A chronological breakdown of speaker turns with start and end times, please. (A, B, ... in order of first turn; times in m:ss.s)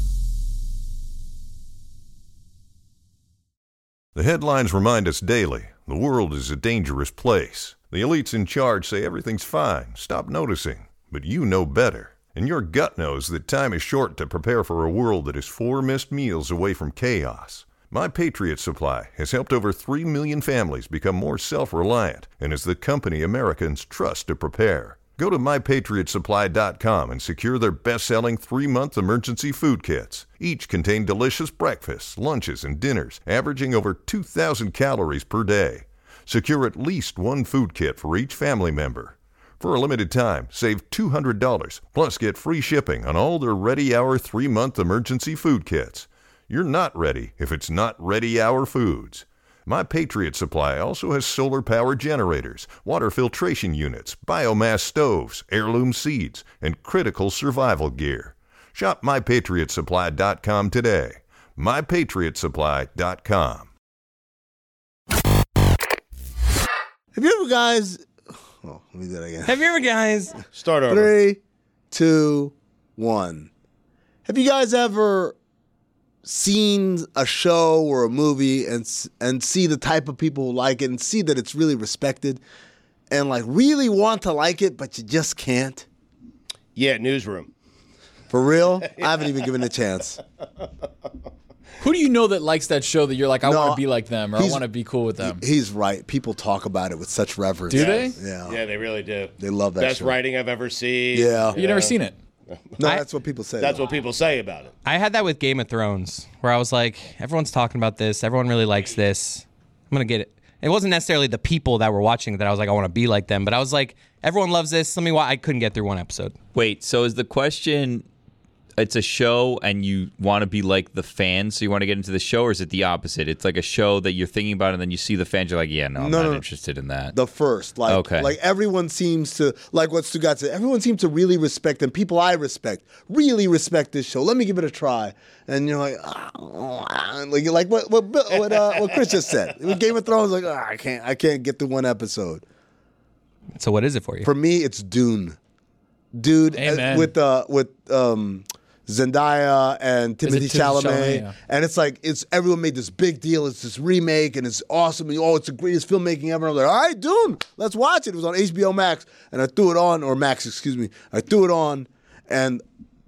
0:04.2-1:03.7 A
1:07.1-1:09.6 B
1:09.5-1:10.4 C
1:10.5-1:11.2 D
1:10.9-1:11.4 B
1:11.9-1:13.5 B
1:14.3-1:15.4 B
1:16.2-1:22.4 B
1:23.1-1:25.9 B
1:26.8-1:27.5 D
1:28.3-1:30.2 B
1:28.9-1:29.3 D
1:31.8-1:35.4 E
1:33.4-1:34.6 B
1:35.2-1:38.6 B
1:37.7-1:38.2 E
1:37.7-1:42.0 D
1:39.4-1:40.2 B
1:41.1-1:41.6 B
1:41.6-1:42.2 E
1:42.5-1:42.9 D
1:42.8-1:43.9 B
1:43.6-1:44.8 D
1:44.8-1:56.4 C
1:56.5-1:58.1 F
1:58.8-2:07.2 F
2:06.0-2:06.5 B
2:07.1-2:22.4 B
2:07.9-2:08.4 F
2:23.6-2:24.3 C
2:24.2-2:25.4 B
2:26.1-2:42.6 B
2:26.5-2:27.1 E
2:30.2-2:31.3 E